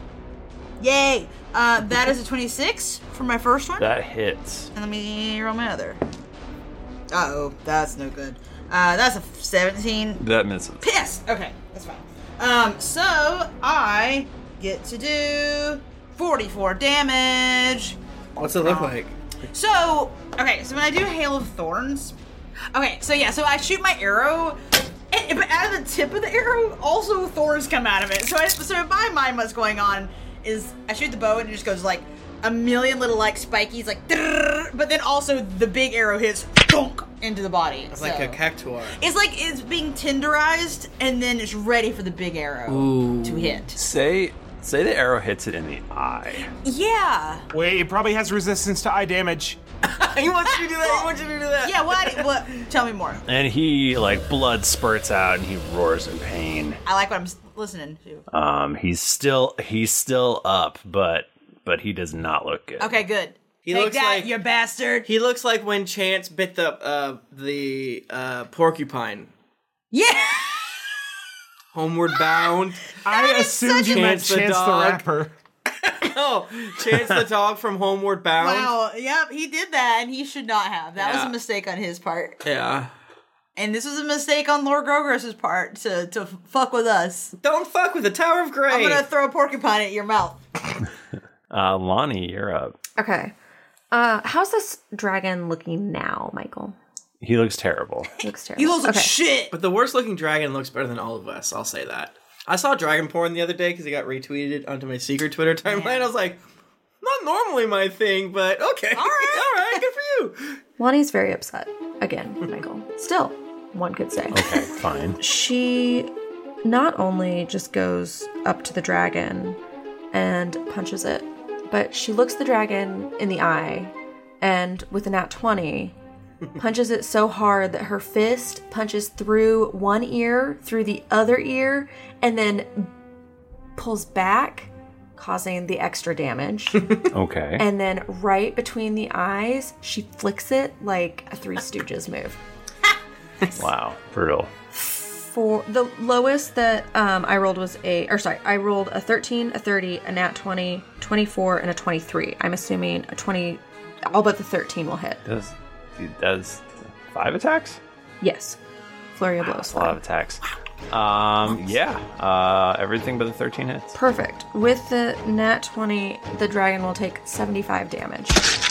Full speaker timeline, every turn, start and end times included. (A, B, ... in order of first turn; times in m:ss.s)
0:00.8-0:03.9 A
0:03.8-0:04.7 B
0:04.8-0:06.0 A
0:07.1-0:10.2 A
0:10.2-0:10.9 B
0:10.8-0:18.0 A
0:18.4-0:19.2 C
0:18.6-0:19.0 A
0:19.5-0:22.2 A
0:22.7-0:38.4 A
0:37.9-0:39.0 C
0:39.0-0:43.8 A
0:42.7-0:43.6 C
0:43.7-0:46.5 B
0:46.6-0:47.5 A
0:47.5-0:49.6 D
0:49.9-0:52.7 C
0:50.6-0:51.1 A
0:51.6-0:53.2 A
0:53.3-0:56.8 B
0:56.9-0:58.2 A
0:58.3-1:03.0 B
1:02.8-1:05.1 A
1:03.6-1:04.4 C
1:05.0-1:09.3 C
1:09.9-1:11.0 A
1:11.7-1:12.9 C
1:13.0-1:14.0 A
1:13.0-1:15.3 D
1:13.9-1:15.0 C
1:15.8-1:18.7 C
1:18.4-1:22.4 A
1:21.0-1:21.3 C
1:22.4-1:22.9 C
1:23.6-1:27.3 A
1:27.4-1:29.1 C
1:28.7-1:30.4 A
1:31.5-1:32.8 B
1:33.0-1:33.3 E
1:33.9-1:36.8 E
1:37.2-1:38.1 B
1:38.2-1:39.1 E
1:38.6-1:39.5 A
1:39.5-1:46.4 C
1:45.7-1:46.1 A
1:47.0-1:50.6 C
1:49.0-1:49.8 A
1:50.8-1:56.1 E
1:54.3-1:55.2 B
1:56.6-1:59.6 E
2:00.1-2:06.0 E
2:06.6-2:12.9 E
2:13.8-2:16.9 E
2:17.1-2:17.6 B
2:17.6-2:22.4 E
2:23.6-2:24.5 B
2:24.8-2:35.2 E
2:35.2-2:37.8 B
2:38.2-2:38.6 E
2:39.2-2:40.0 E
2:39.4-2:43.9 B
2:43.9-2:48.5 E